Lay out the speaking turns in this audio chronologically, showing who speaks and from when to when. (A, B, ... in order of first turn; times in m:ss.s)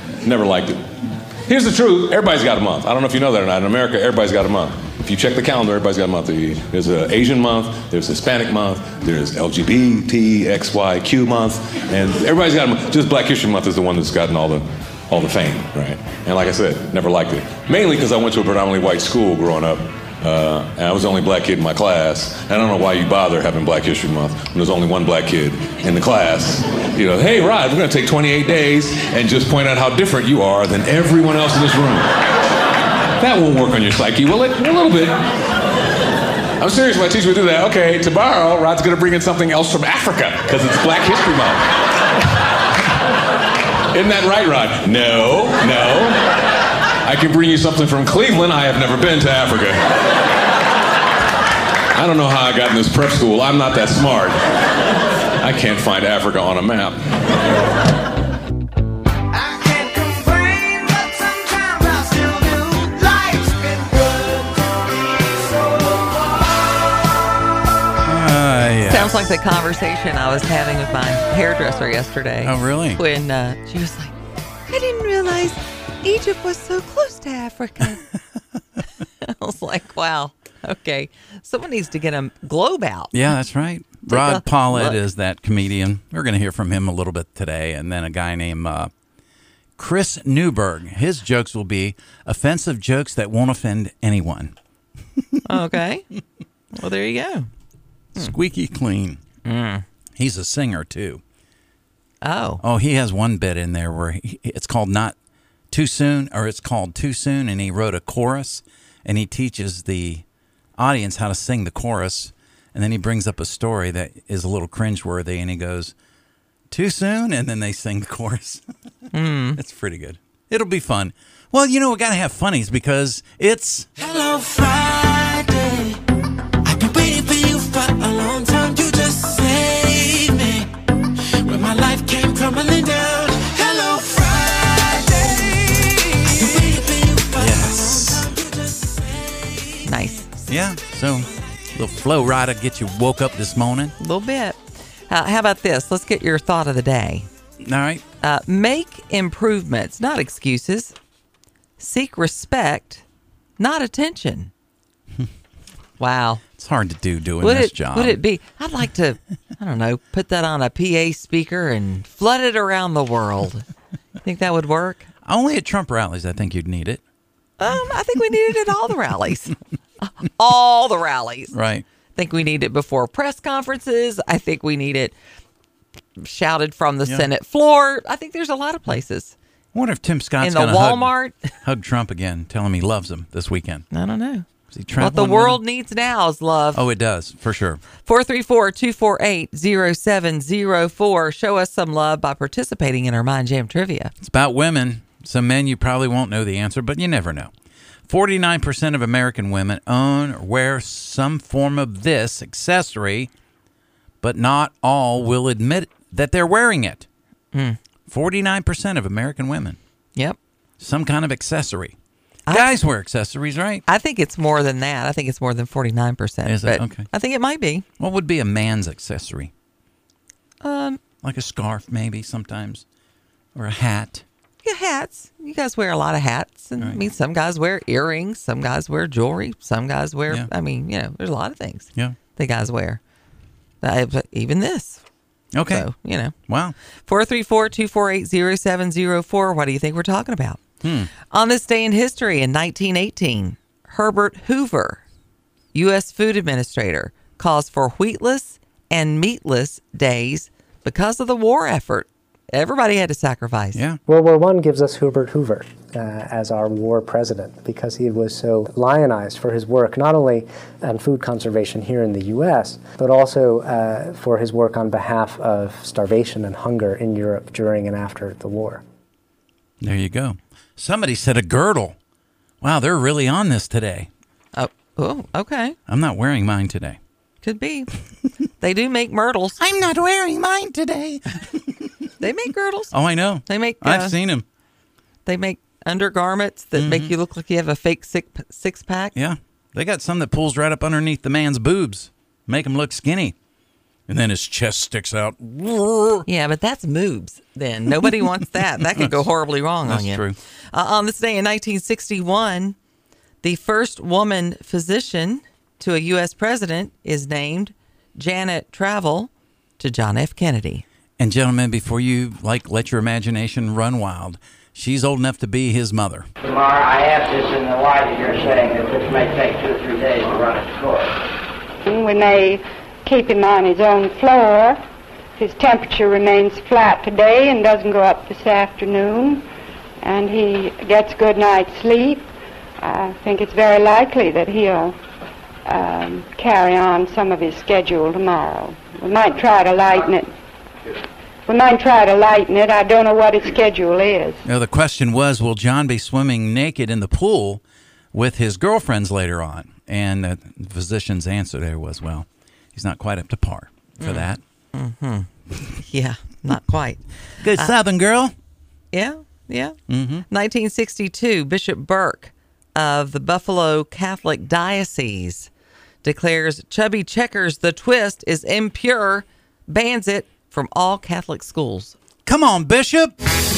0:00.2-0:00.8 A
0:01.5-0:32.1 A
0:33.2-0:35.2 A
0:36.6-0:41.7 A
0:43.9-0:46.4 A
0:47.0-0:49.8 A
0:51.9-0:54.4 A
0:55.4-0:57.0 A
1:08.0-1:09.3 B
1:08.9-1:14.1 C
1:12.4-1:13.0 B
1:14.7-1:18.0 C
1:19.2-1:23.2 C
1:23.1-1:28.9 B
1:24.1-1:25.0 C
1:29.8-1:34.5 B
1:35.2-1:35.6 B
1:35.4-1:36.0 C
1:36.7-1:37.5 C
1:38.2-1:39.2 B
1:39.4-1:39.8 C
1:40.2-1:41.2 B
1:42.2-1:42.6 C
1:42.6-1:45.2 B
1:45.7-1:50.2 B
1:50.8-1:55.9 B
1:56.7-1:58.6 B
1:59.1-1:59.6 C
1:59.6-2:03.9 B
2:04.0-2:06.0 D
2:06.6-2:10.7 D
2:11.4-2:20.2 D
2:17.4-2:18.3 B
2:19.8-2:20.3 C
2:20.5-2:23.9 B
2:24.0-2:27.3 C
2:27.6-2:28.0 B
2:28.2-2:30.9 C
2:31.8-2:33.0 C
2:33.6-2:34.5 C
2:36.0-2:36.4 C
2:36.6-2:38.2 B
2:37.4-2:43.6 C
2:44.2-2:45.1 C
2:45.2-2:47.0 B
2:47.6-2:51.5 C
2:51.5-2:51.8 B
2:52.1-2:55.2 C
2:56.2-2:59.3 C
2:59.7-3:03.8 B
3:00.4-3:01.4 C
3:03.9-3:06.8 C
3:04.7-3:05.6 B
3:06.7-3:07.8 B
3:08.0-3:14.1 C
3:14.2-3:17.5 B
3:18.1-3:23.3 B
3:24.2-3:27.0 B
3:27.5-3:27.8 C
3:28.1-3:29.8 B
3:30.8-3:31.9 B
3:32.5-3:33.8 B
3:33.9-3:37.8 C
3:36.4-3:37.1 B
3:38.0-3:39.5 B
3:40.6-3:41.0 C
3:41.2-3:42.8 B
3:43.5-3:44.2 B
3:44.6-3:53.0 C
3:46.8-3:47.1 B
3:53.8-3:55.0 C
3:55.5-3:55.9 B
3:55.7-3:56.3 C
3:56.5-3:56.7 B
3:57.0-4:00.6 C
4:00.8-4:01.1 B
4:01.3-4:05.0 C
4:05.7-4:13.8 C
4:13.7-4:14.0 B
4:14.0-4:28.8 E
4:29.8-4:32.0 B
4:32.6-4:34.1 B
4:34.5-4:35.8 C
4:35.9-4:37.0 B
4:37.4-4:37.9 C
4:38.6-4:39.6 C
4:39.6-4:41.9 B
4:42.2-4:42.9 C
4:42.9-4:44.4 B
4:43.4-4:44.2 C
4:45.2-4:49.1 C
4:46.8-4:47.1 B
4:49.1-4:53.4 B
4:54.1-4:56.2 B
4:56.2-5:02.8 C
4:58.9-4:59.3 B
4:59.8-5:00.4 B
5:03.4-5:10.8 C
5:11.2-5:16.3 B
5:16.4-5:21.2 F
5:21.8-5:24.8 G
5:25.4-5:29.4 G
5:30.0-5:32.3 G
5:32.8-5:35.0 G
5:35.6-5:40.3 G
5:41.5-5:44.4 G
5:44.4-5:47.6 B
5:48.1-5:54.4 B
5:54.0-5:57.7 C
5:57.4-5:58.3 B
5:58.9-5:59.8 C
5:59.9-6:00.2 B
6:00.3-6:05.5 C
6:06.0-6:12.0 C
6:12.2-6:13.1 B